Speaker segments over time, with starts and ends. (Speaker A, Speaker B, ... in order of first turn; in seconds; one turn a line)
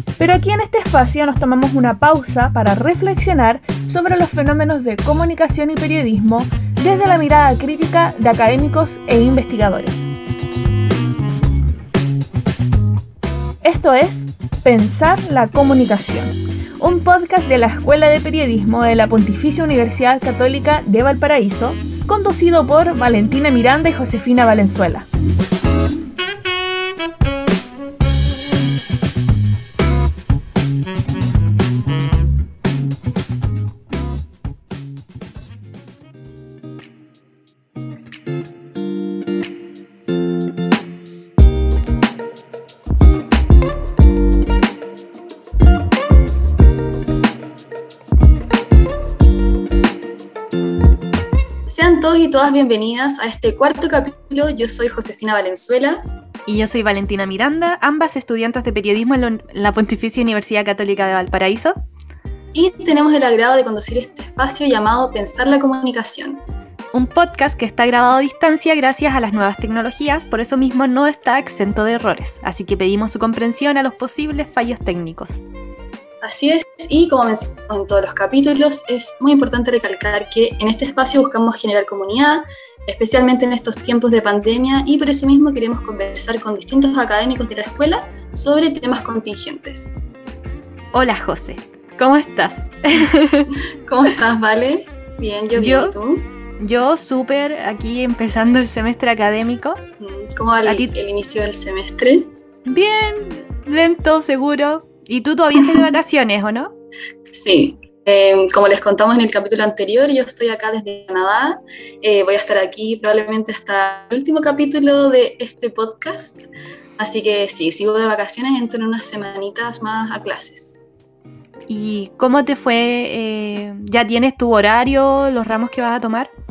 Speaker A: 0.2-10.1
Speaker A: 13.6-25.1
Speaker B: 51.7-56.1
Speaker C: 56.5-61.8
Speaker B: 62.5-66.4
Speaker C: 66.9-75.4
Speaker B: 76.2-90.0
Speaker C: 90.9-93.5
Speaker B: 93.9-96.3
Speaker C: 95.6-96.0
Speaker C: 96.6-99.8
Speaker B: 100.0-102.3
Speaker C: 102.7-106.7
Speaker B: 107.3-116.5
Speaker B: 117.0-120.9
Speaker C: 121.7-126.3